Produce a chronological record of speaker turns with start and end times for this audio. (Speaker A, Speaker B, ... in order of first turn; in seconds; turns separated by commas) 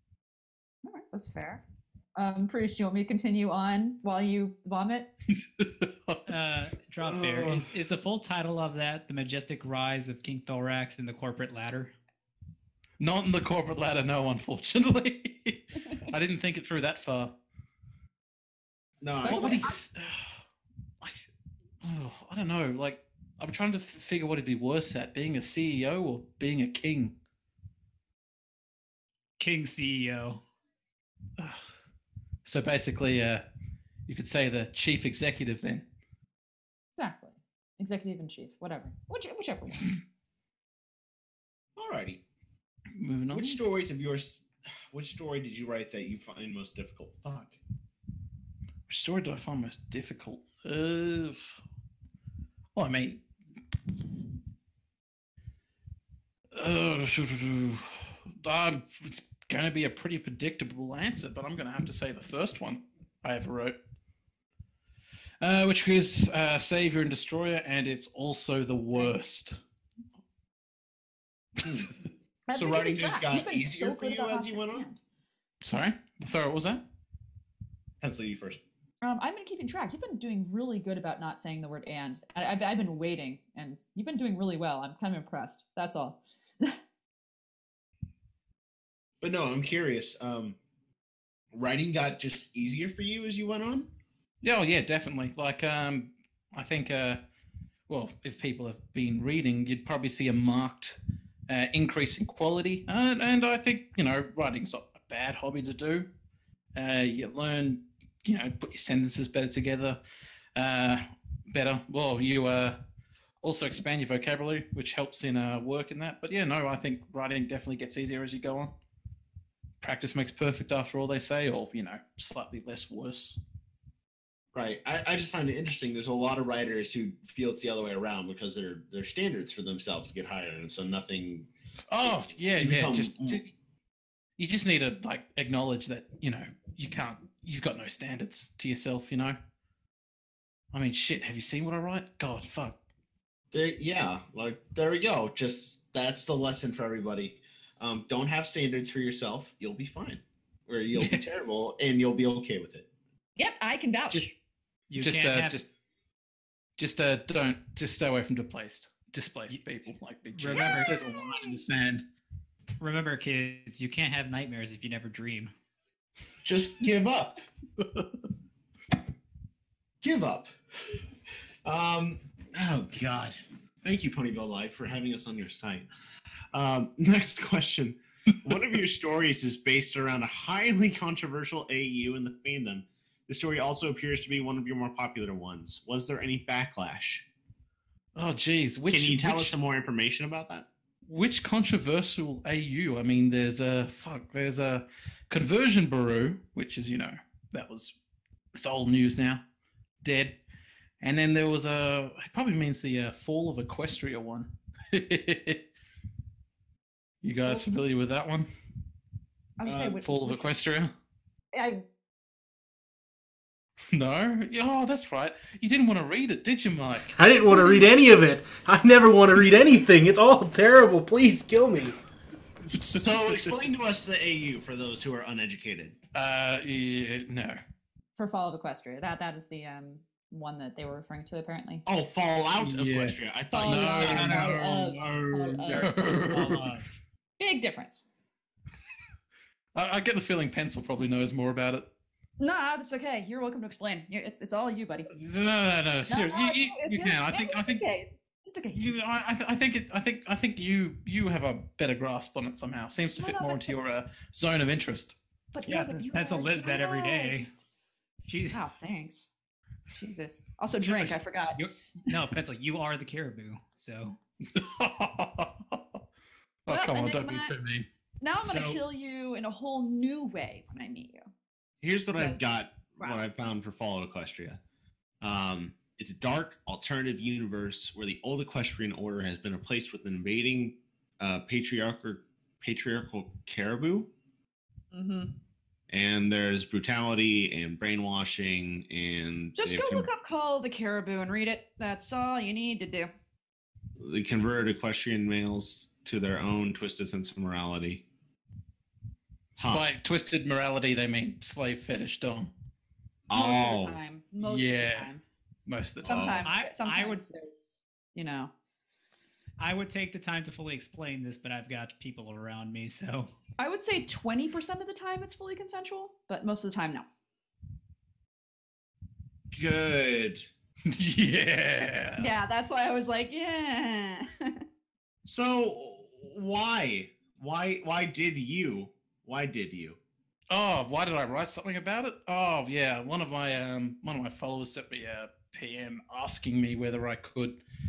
Speaker A: 0.8-1.6, Speaker A: 2.2-5.1, Speaker B: 5.3-6.2, Speaker C: 6.3-11.9, Speaker D: 7.0-7.7, Speaker B: 13.0-17.3, Speaker D: 19.0-19.7, Speaker A: 19.2-19.8, Speaker B: 19.2-20.4, Speaker B: 21.0-21.3, Speaker B: 21.8-27.1, Speaker C: 29.4-30.4, Speaker B: 31.4-31.7, Speaker B: 32.5-33.4, Speaker B: 34.1-35.8, Speaker A: 37.0-39.9, Speaker D: 41.8-42.2, Speaker B: 43.0-43.6, Speaker D: 43.3-47.6, Speaker B: 48.9-51.6, Speaker B: 52.8-53.2, Speaker B: 56.5-63.8, Speaker B: 65.4-69.6, Speaker D: 71.6-71.9, Speaker B: 71.6-71.9, Speaker A: 72.5-75.0, Speaker D: 72.5-74.9, Speaker B: 75.6-76.8, Speaker D: 78.0-78.6, Speaker A: 79.0-86.8, Speaker D: 89.2-90.6, Speaker D: 91.5-93.9, Speaker B: 94.4-97.2, Speaker B: 97.9-101.0, Speaker B: 101.5-106.1, Speaker B: 106.8-110.0, Speaker B: 110.6-112.8, Speaker B: 113.4-118.7, Speaker B: 119.8-123.4, Speaker D: 124.5-131.5, Speaker B: 131.9-133.5, Speaker D: 132.0-133.4, Speaker B: 134.4-139.4, Speaker B: 140.7-142.7, Speaker D: 143.5-152.9, Speaker A: 153.4-154.3, Speaker C: 154.9-155.6, Speaker B: 155.0-155.7, Speaker B: 156.8-162.0, Speaker C: 160.4-161.0, Speaker A: 160.7-161.5, Speaker C: 162.8-165.5, Speaker D: 166.4-167.4, Speaker D: 170.0-170.5, Speaker D: 171.7-175.9, Speaker D: 176.5-187.2, Speaker B: 188.2-189.6, Speaker D: 188.9-190.7, Speaker B: 191.1-197.9, Speaker B: 198.6-199.4, Speaker B: 200.0-200.3, Speaker B: 201.0-205.6, Speaker B: 207.2-208.5, Speaker A: 209.6-210.4, Speaker D: 209.7-210.0, Speaker B: 210.0-210.9, Speaker A: 211.5-211.8, Speaker B: 213.9-217.2, Speaker E: 217.1-222.0, Speaker A: 217.5-217.8, Speaker D: 222.7-225.9, Speaker B: 226.1-227.6, Speaker A: 228.2-231.8, Speaker D: 231.9-234.0, Speaker B: 232.6-236.7, Speaker A: 233.5-235.9, Speaker C: 234.0-234.6, Speaker C: 236.3-237.0, Speaker A: 237.4-238.1, Speaker B: 239.8-241.8, Speaker A: 242.4-245.1, Speaker B: 245.1-247.8, Speaker A: 246.1-248.9, Speaker B: 248.7-255.2, Speaker A: 253.2-253.8, Speaker A: 255.5-257.6, Speaker C: 255.7-257.5, Speaker C: 258.3-258.6, Speaker A: 258.5-259.3, Speaker A: 259.9-261.6, Speaker C: 260.9-264.2, Speaker B: 264.5-265.8, Speaker B: 266.7-267.9, Speaker A: 266.7-267.5, Speaker A: 268.2-271.2, Speaker D: 268.4-268.8, Speaker D: 271.8-274.6, Speaker D: 275.2-284.1, Speaker A: 284.9-285.3, Speaker D: 285.9-290.1, Speaker A: 289.6-293.1, Speaker D: 294.0-298.0, Speaker D: 299.6-299.9, Speaker B: 299.7-302.5, Speaker D: 303.3-304.0, Speaker A: 303.3-305.2, Speaker B: 304.4-305.1, Speaker B: 305.7-306.4, Speaker A: 306.0-307.5, Speaker D: 306.1-306.4, Speaker C: 306.4-307.2, Speaker A: 308.1-308.5, Speaker C: 309.6-313.3, Speaker A: 313.6-317.1, Speaker D: 319.5-320.5, Speaker B: 320.9-322.3, Speaker A: 322.2-324.6, Speaker D: 325.2-330.0, Speaker B: 330.5-337.6